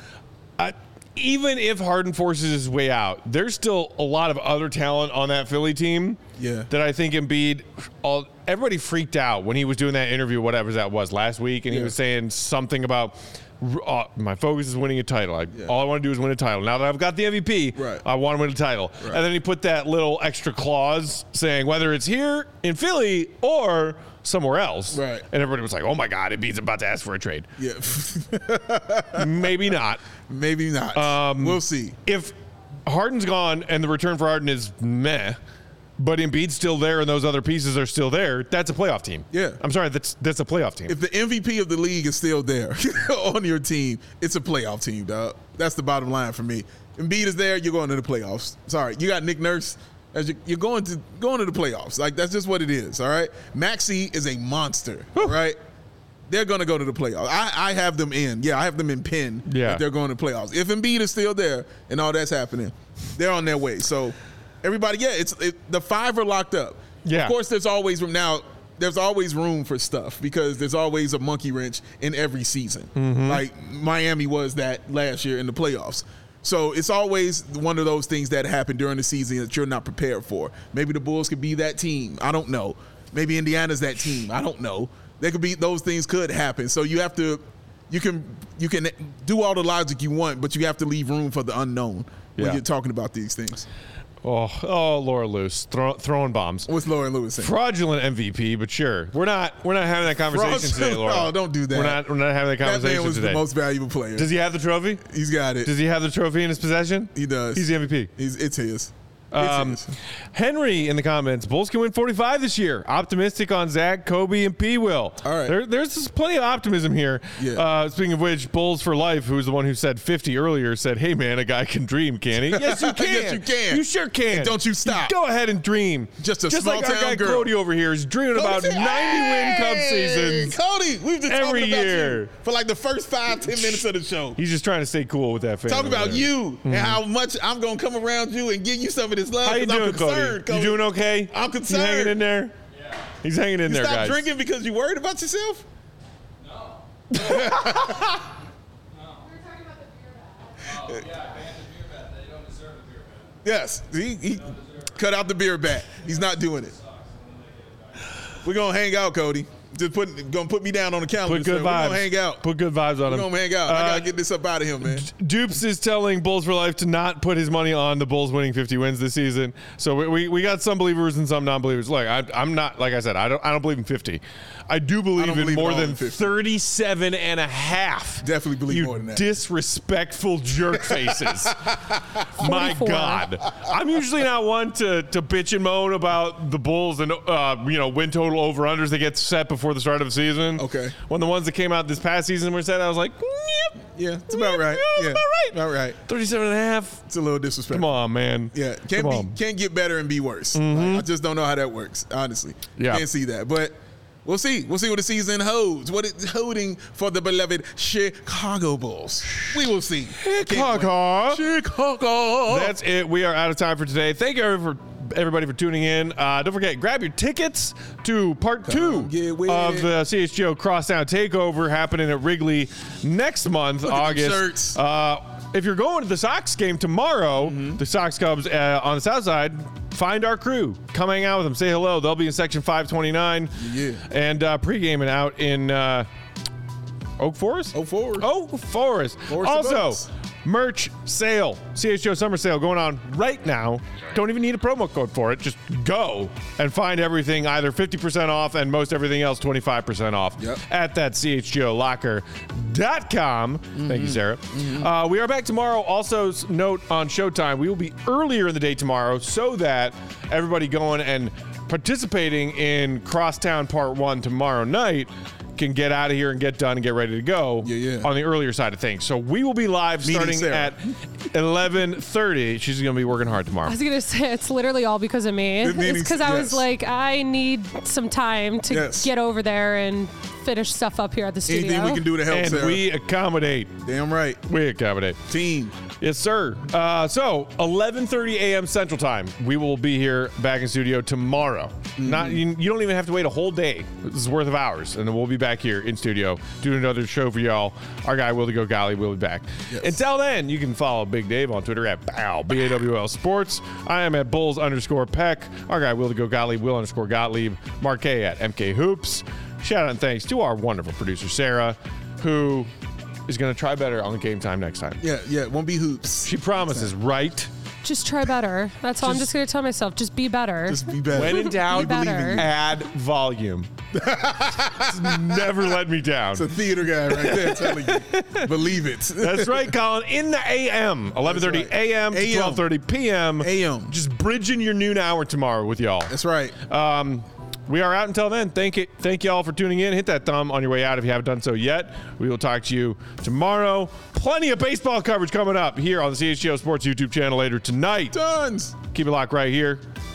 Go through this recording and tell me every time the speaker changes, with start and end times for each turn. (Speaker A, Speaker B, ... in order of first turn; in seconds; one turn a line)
Speaker A: 0.6-27.5
Speaker B: 6.4-6.7
Speaker B: 11.7-11.9
Speaker B: 17.8-18.0
Speaker B: 24.9-25.2
Speaker B: 27.6-29.5
Speaker A: 29.1-30.0
Speaker B: 30.3-32.0
Speaker A: 30.9-32.3
Speaker A: 32.9-35.4
Speaker A: 36.0-40.9
Speaker B: 39.3-39.6
Speaker B: 40.9-55.6
Speaker B: 56.3-93.7
Speaker A: 59.5-59.8
Speaker A: 67.0-67.3
Speaker A: 72.9-73.4
Speaker A: 94.2-96.7
Speaker B: 96.7-97.5
Speaker A: 97.4-103.4
Speaker B: 100.3-102.0
Speaker B: 102.6-104.3
Speaker A: 104.2-105.0
Speaker B: 105.0-105.7
Speaker A: 105.6-108.1
Speaker B: 107.1-109.9
Speaker A: 109.3-130.6
Speaker B: 115.2-115.5
Speaker B: 117.4-117.6
Speaker B: 122.5-125.1
Speaker B: 126.2-127.5
Speaker B: 128.3-134.4
Speaker A: 131.3-132.3
Speaker A: 133.6-133.8
Speaker A: 134.3-137.0
Speaker B: 135.7-142.2
Speaker A: 139.4-142.5
Speaker A: 143.1-144.3
Speaker B: 143.6-145.6
Speaker B: 147.1-148.2
Speaker A: 147.1-148.0
Speaker C: 149.2-150.5
Speaker B: 153.4-156.8
Speaker B: 158.4-162.4
Speaker A: 161.2-164.1
Speaker B: 163.1-165.1
Speaker A: 164.8-197.1
Speaker B: 175.2-176.3
Speaker B: 178.2-179.3
Speaker B: 180.9-182.2
Speaker C: 182.4-183.2
Speaker B: 190.6-190.9
Speaker B: 193.9-196.0
Speaker B: 197.1-197.9
Speaker A: 197.7-199.3
Speaker B: 198.5-212.7
Speaker A: 200.5-201.0
Speaker A: 202.8-203.0
Speaker A: 210.1-211.4
Speaker A: 212.5-236.1
Speaker B: 218.6-219.9
Speaker B: 223.8-224.8
Speaker B: 227.4-227.8
Speaker B: 233.6-234.0
Speaker A: 237.2-273.8
Speaker B: 237.7-238.3
Speaker B: 239.3-240.1
Speaker B: 253.8-254.9
Speaker B: 267.6-268.1
Speaker B: 270.0-270.7
Speaker C: 273.6-282.0
Speaker B: 275.6-276.6
Speaker B: 278.7-279.1
Speaker B: 281.5-282.8
Speaker A: 282.3-283.8
Speaker B: 283.8-284.4
Speaker A: 284.5-285.2
Speaker B: 285.3-285.8
Speaker A: 285.9-312.7
Speaker B: 292.0-292.4
Speaker B: 299.7-300.0
Speaker A: 313.3-315.0
Speaker B: 315.0-316.9
Speaker A: 316.2-317.5
Speaker C: 317.8-322.4
Speaker A: 319.0-319.3
Speaker B: 320.7-322.5
Speaker A: 321.1-323.7
Speaker B: 323.9-325.7
Speaker A: 324.7-326.5
Speaker B: 326.3-329.7
Speaker A: 327.1-328.5
Speaker A: 329.2-348.2
Speaker B: 331.2-332.7
Speaker B: 333.4-333.9
Speaker B: 336.1-336.6
Speaker B: 348.1-348.8
Speaker A: 348.8-349.8